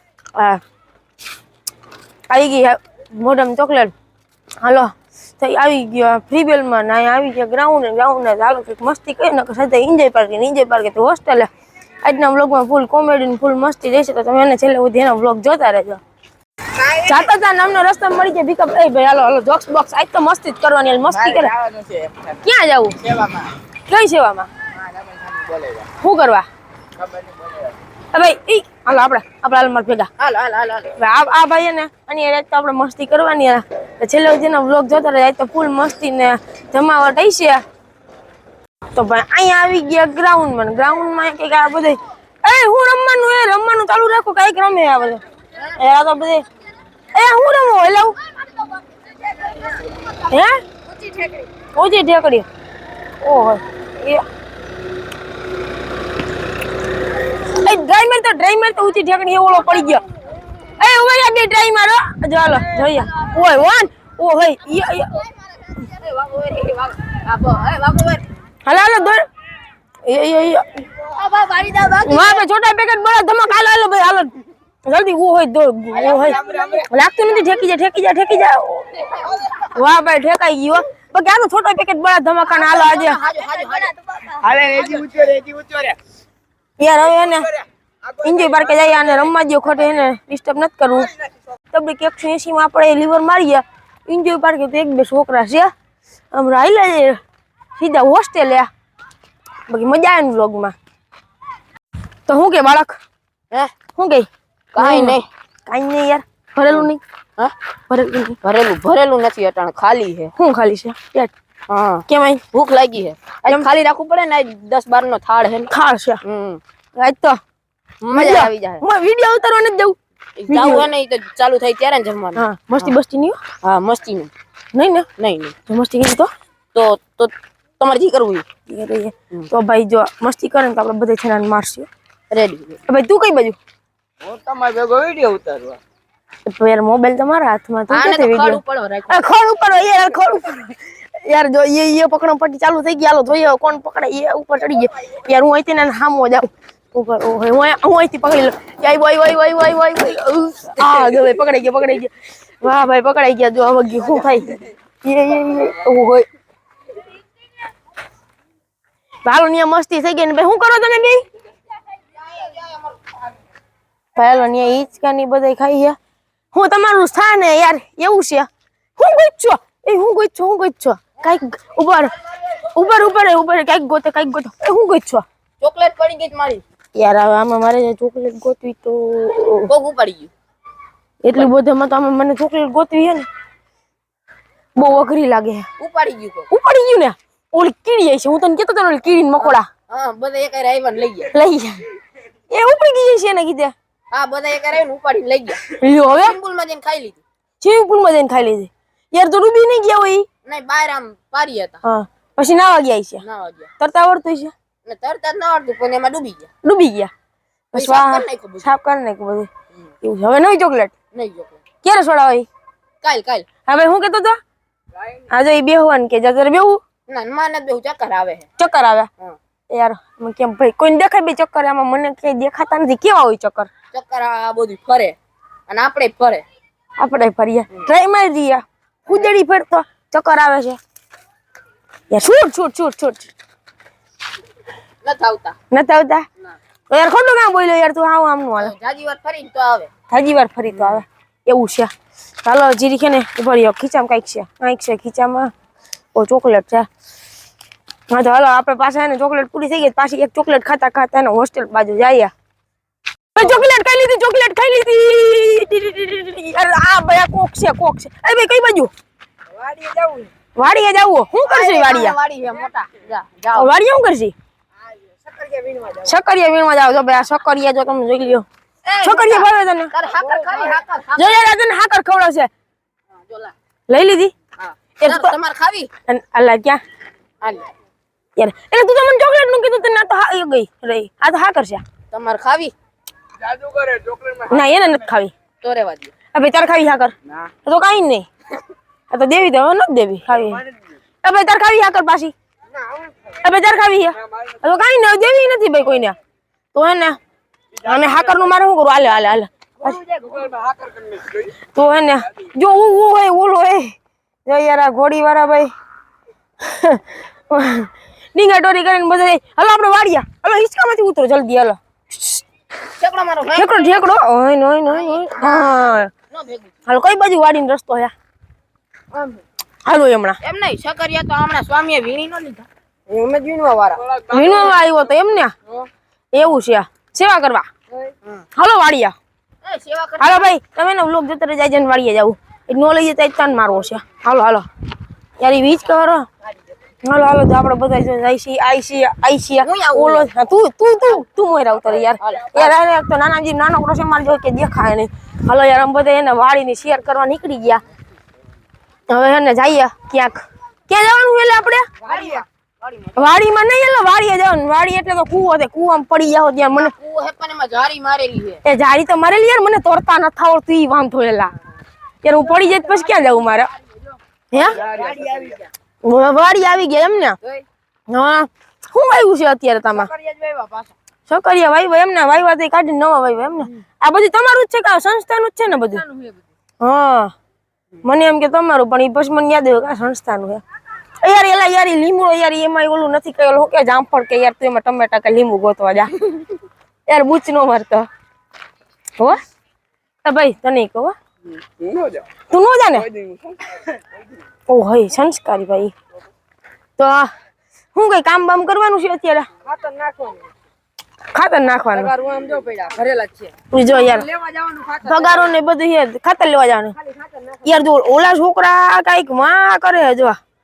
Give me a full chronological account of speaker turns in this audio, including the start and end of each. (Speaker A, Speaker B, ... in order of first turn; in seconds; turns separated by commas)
Speaker A: 0.3-0.6, Speaker A: 2.3-3.9, Speaker A: 4.6-11.5, Speaker A: 12.0-16.0, Speaker B: 16.8-17.1, Speaker A: 16.9-21.5, Speaker C: 21.1-22.4, Speaker A: 22.4-23.0, Speaker C: 23.0-23.5, Speaker A: 23.9-24.5, Speaker C: 24.8-25.9, Speaker A: 26.0-26.5, Speaker C: 27.0-27.7, Speaker A: 28.1-30.1, Speaker B: 30.2-30.9, Speaker A: 30.9-37.6, Speaker A: 38.9-46.4, Speaker A: 47.1-48.2, Speaker B: 49.2-50.1, Speaker A: 50.3-50.6, Speaker B: 50.9-51.5, Speaker A: 51.7-52.5, Speaker A: 53.2-54.2, Speaker A: 57.5-60.0, Speaker A: 60.8-65.2, Speaker B: 62.8-63.2, Speaker B: 65.7-68.2, Speaker A: 68.6-69.2, Speaker A: 70.0-70.8, Speaker B: 71.0-72.4, Speaker A: 72.0-74.3, Speaker A: 74.8-79.0, Speaker B: 75.9-76.8, Speaker C: 76.2-76.8, Speaker B: 79.2-79.4, Speaker A: 79.6-83.2, Speaker B: 82.5-84.5, Speaker C: 84.3-86.0, Speaker A: 86.8-87.5, Speaker C: 88.1-89.1, Speaker A: 88.2-91.1, Speaker A: 91.7-95.7, Speaker A: 96.3-97.2, Speaker A: 97.8-98.7, Speaker A: 99.7-100.7, Speaker A: 102.3-103.0, Speaker A: 104.0-107.0, Speaker B: 104.7-105.2, Speaker B: 106.7-107.5, Speaker A: 107.9-108.4, Speaker B: 108.4-110.3, Speaker A: 110.4-111.3, Speaker B: 111.7-115.7, Speaker A: 112.1-112.4, Speaker A: 115.7-116.2, Speaker B: 116.2-116.6, Speaker A: 117.0-117.4, Speaker B: 118.0-118.8, Speaker A: 118.1-120.0, Speaker B: 120.4-122.9, Speaker A: 120.5-120.9, Speaker A: 122.3-123.4, Speaker B: 123.6-124.3, Speaker A: 124.7-125.1, Speaker B: 125.2-125.5, Speaker A: 125.7-126.3, Speaker B: 126.7-128.4, Speaker A: 128.7-131.9, Speaker B: 132.3-132.8, Speaker A: 132.9-133.6, Speaker C: 134.2-135.8, Speaker A: 136.4-156.2, Speaker B: 137.9-139.2, Speaker A: 159.2-161.2, Speaker B: 162.1-163.2, Speaker A: 164.2-166.0, Speaker A: 166.5-172.1, Speaker A: 172.7-175.2, Speaker B: 175.6-176.6, Speaker A: 176.9-179.7, Speaker B: 179.7-180.3, Speaker A: 181.2-183.2, Speaker A: 184.8-185.7, Speaker B: 185.8-186.5, Speaker A: 186.5-189.7, Speaker B: 189.4-191.3, Speaker A: 191.3-191.9, Speaker A: 192.5-193.7, Speaker B: 194.1-197.2, Speaker A: 195.7-196.3, Speaker A: 197.6-200.3, Speaker B: 200.4-201.8, Speaker A: 201.8-203.2, Speaker B: 203.2-203.7, Speaker A: 203.8-204.5, Speaker B: 204.8-206.5, Speaker A: 206.6-207.1, Speaker A: 207.7-209.5, Speaker B: 207.7-208.6, Speaker A: 210.0-210.9, Speaker B: 211.1-211.6, Speaker A: 211.8-212.5, Speaker B: 213.0-213.5, Speaker A: 213.6-214.4, Speaker A: 215.3-216.8, Speaker B: 217.1-218.5, Speaker A: 218.6-219.1, Speaker A: 219.7-223.7, Speaker B: 223.9-225.2, Speaker B: 225.7-226.4, Speaker A: 227.0-230.8, Speaker A: 232.1-233.3, Speaker B: 235.0-235.6, Speaker A: 235.7-236.2, Speaker A: 236.9-238.7, Speaker B: 238.6-239.9, Speaker A: 240.1-241.9, Speaker B: 240.7-241.0, Speaker A: 242.4-245.5, Speaker A: 246.1-246.9, Speaker A: 248.1-252.3, Speaker A: 253.3-258.9, Speaker C: 259.6-260.3, Speaker A: 260.5-262.1, Speaker B: 261.4-263.7, Speaker A: 263.5-264.3, Speaker C: 265.3-266.0, Speaker A: 266.0-268.4, Speaker B: 268.9-271.5, Speaker A: 269.0-269.9, Speaker A: 271.1-272.5, Speaker B: 273.3-273.5, Speaker A: 273.9-274.3, Speaker B: 274.6-275.9, Speaker A: 275.0-275.3, Speaker A: 276.1-276.8, Speaker B: 277.4-277.7, Speaker A: 278.4-281.8, Speaker B: 282.1-282.7, Speaker C: 283.4-284.5, Speaker A: 284.4-285.3, Speaker B: 285.6-286.1, Speaker A: 286.3-288.3, Speaker A: 289.1-290.6, Speaker A: 291.2-292.3, Speaker A: 293.4-296.1, Speaker A: 296.7-297.2, Speaker A: 297.8-300.0, Speaker C: 297.8-298.1, Speaker C: 299.8-301.5, Speaker A: 301.7-303.9, Speaker A: 304.4-305.7, Speaker A: 306.6-312.4, Speaker B: 313.0-314.0, Speaker A: 313.5-316.1, Speaker B: 314.9-316.7, Speaker A: 316.9-318.1, Speaker B: 319.1-319.4, Speaker A: 319.9-320.4, Speaker B: 320.4-324.2, Speaker C: 324.1-324.8, Speaker A: 324.3-325.5, Speaker A: 326.3-327.7, Speaker B: 327.9-328.4, Speaker A: 328.6-329.1, Speaker B: 329.6-330.5, Speaker A: 330.2-334.7, Speaker A: 335.4-336.3, Speaker A: 337.0-347.8, Speaker B: 339.6-340.3, Speaker B: 342.2-342.8, Speaker A: 349.1-351.9, Speaker B: 352.0-353.4, Speaker A: 353.2-356.9, Speaker B: 356.7-358.6, Speaker A: 358.6-361.5, Speaker A: 362.2-363.7, Speaker A: 364.5-364.8, Speaker B: 364.5-365.7, Speaker C: 364.7-365.5, Speaker A: 366.0-367.4, Speaker A: 368.1-370.1, Speaker B: 369.9-370.9, Speaker A: 371.3-376.0, Speaker B: 375.7-376.4, Speaker A: 376.8-377.3, Speaker A: 378.0-380.6, Speaker A: 381.2-386.3, Speaker A: 387.1-388.1, Speaker A: 390.2-391.1, Speaker C: 391.8-392.2, Speaker A: 392.5-393.1, Speaker C: 393.1-393.8, Speaker A: 394.7-395.9, Speaker A: 397.0-397.3, Speaker A: 397.9-399.5, Speaker B: 399.6-400.5, Speaker A: 401.3-402.1, Speaker B: 401.9-405.5, Speaker A: 403.7-404.2, Speaker A: 405.0-406.9, Speaker B: 407.0-407.7, Speaker A: 407.6-410.4